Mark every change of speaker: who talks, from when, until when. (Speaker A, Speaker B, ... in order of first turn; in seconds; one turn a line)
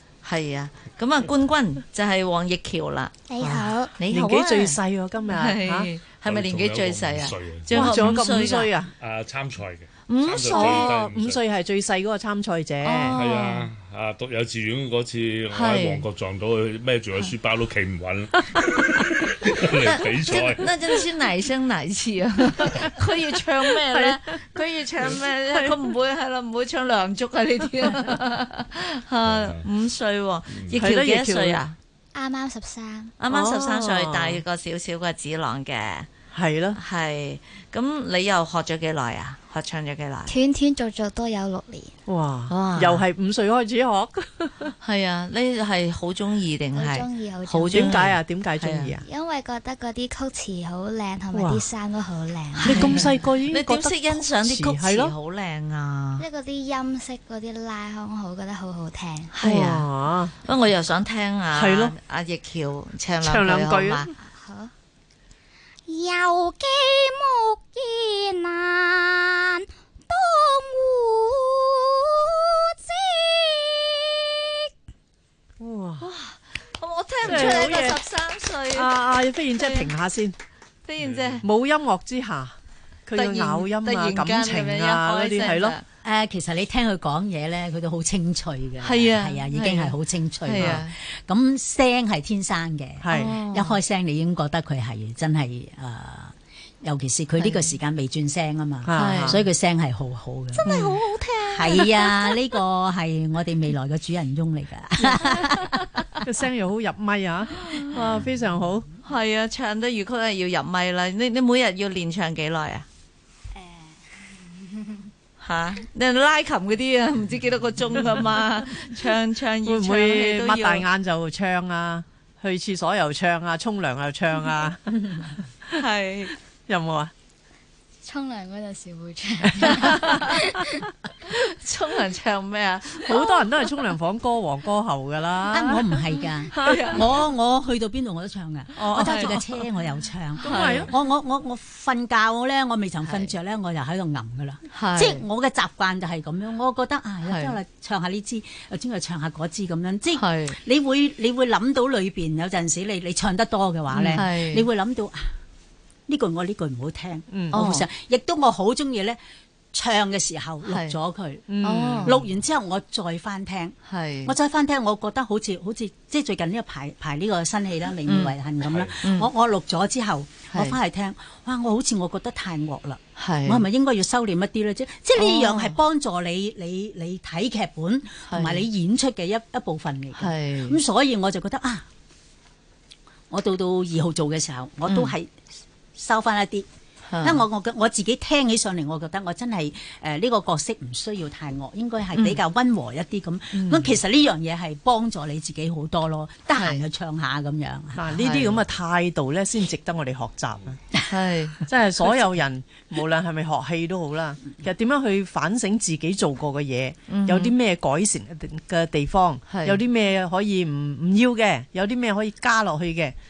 Speaker A: 0.2-4.8
Speaker B: 3.3-3.9
Speaker C: 3.4-5.9
Speaker A: 5.3-8.7
Speaker D: 6.2-8.4
Speaker C: 7.7-8.9
Speaker D: 9.0-11.4
Speaker A: 10.1-10.9
Speaker C: 10.4-13.2
Speaker A: 12.8-13.7
Speaker D: 13.1-20.7
Speaker A: 15.5-16.1
Speaker A: 19.7-31.7
Speaker C: 23.8-24.2
Speaker C: 25.5-25.8
Speaker D: 29.2-29.6
Speaker D: 30.5-30.8
Speaker C: 30.8-31.7
Speaker B: 32.1-33.1
Speaker A: 33.2-36.1
Speaker C: 33.3-34.4
Speaker C: 36.3-36.8
Speaker A: 36.8-40.3
Speaker B: 40.3-41.9
Speaker C: 42.1-44.7
Speaker A: 42.5-43.0
Speaker A: 44.8-49.0
Speaker B: 46.8-47.9
Speaker C: 47.7-49.0
Speaker B: 49.0-52.9
Speaker C: 51.3-51.6
Speaker A: 52.6-56.2
Speaker C: 52.6-55.1
Speaker B: 56.2-59.3
Speaker A: 59.3-59.9
Speaker C: 59.4-60.3
Speaker A: 60.4-64.1
Speaker C: 61.5-62.0
Speaker C: 63.2-64.1
Speaker B: 64.2-64.7
Speaker B: 65.9-74.7
Speaker C: 75.6-76.1
Speaker A: 76.0-79.9
Speaker C: 77.2-78.0
Speaker C: 78.7-80.3
Speaker A: 80.8-81.5
Speaker D: 81.0-81.4
Speaker C: 81.4-85.8
Speaker A: 83.1-85.8
Speaker E: 86.0-100.7
Speaker A: 88.8-89.9
Speaker A: 90.4-90.9
Speaker C: 90.5-90.8
Speaker C: 93.0-93.3
Speaker A: 93.1-93.8
Speaker A: 97.4-97.7
Speaker C: 98.8-99.4
Speaker A: 99.0-99.4
Speaker A: 100.5-102.3
Speaker C: 100.6-100.9
Speaker E: 101.5-105.8
Speaker A: 105.2-106.0
Speaker C: 106.2-108.9
Speaker A: 107.6-108.0
Speaker A: 109.0-112.8
Speaker B: 113.5-115.1
Speaker A: 115.4-120.8
Speaker C: 119.6-125.2
Speaker A: 125.7-126.3
Speaker C: 126.7-127.1
Speaker B: 128.0-130.9
Speaker C: 129.6-130.0
Speaker A: 129.7-130.2
Speaker A: 131.3-133.6
Speaker C: 133.1-135.8
Speaker E: 135.5-155.3
Speaker C: 136.5-137.0
Speaker A: 136.6-137.1
Speaker C: 138.8-139.4
Speaker A: 138.9-139.4
Speaker C: 140.4-140.9
Speaker A: 140.4-140.9
Speaker A: 143.0-143.3
Speaker A: 144.7-145.2
Speaker A: 147.2-147.6
Speaker A: 150.2-150.6
Speaker A: 153.9-154.7
Speaker E: 156.1-159.2
Speaker C: 157.3-157.6
Speaker A: 157.5-157.9
Speaker E: 159.7-161.4
Speaker A: 160.6-160.9
Speaker C: 161.5-162.2
Speaker A: 161.6-162.2
Speaker E: 162.0-181.8
Speaker A: 163.9-164.3
Speaker A: 168.1-168.3
Speaker D: 168.7-168.9
Speaker A: 169.0-169.3
Speaker A: 170.5-170.8
Speaker A: 173.2-173.6
Speaker A: 175.2-175.8
Speaker A: 178.3-178.7
Speaker A: 180.2-180.8
Speaker E: 183.3-185.3
Speaker A: 184.9-185.1
Speaker E: 185.9-186.7
Speaker A: 187.1-187.4
Speaker E: 187.2-198.5
Speaker C: 193.5-193.9
Speaker A: 196.5-196.8
Speaker C: 197.9-200.8
Speaker A: 201.1-201.6
Speaker C: 201.7-213.1
Speaker A: 207.1-207.5
Speaker A: 209.5-209.8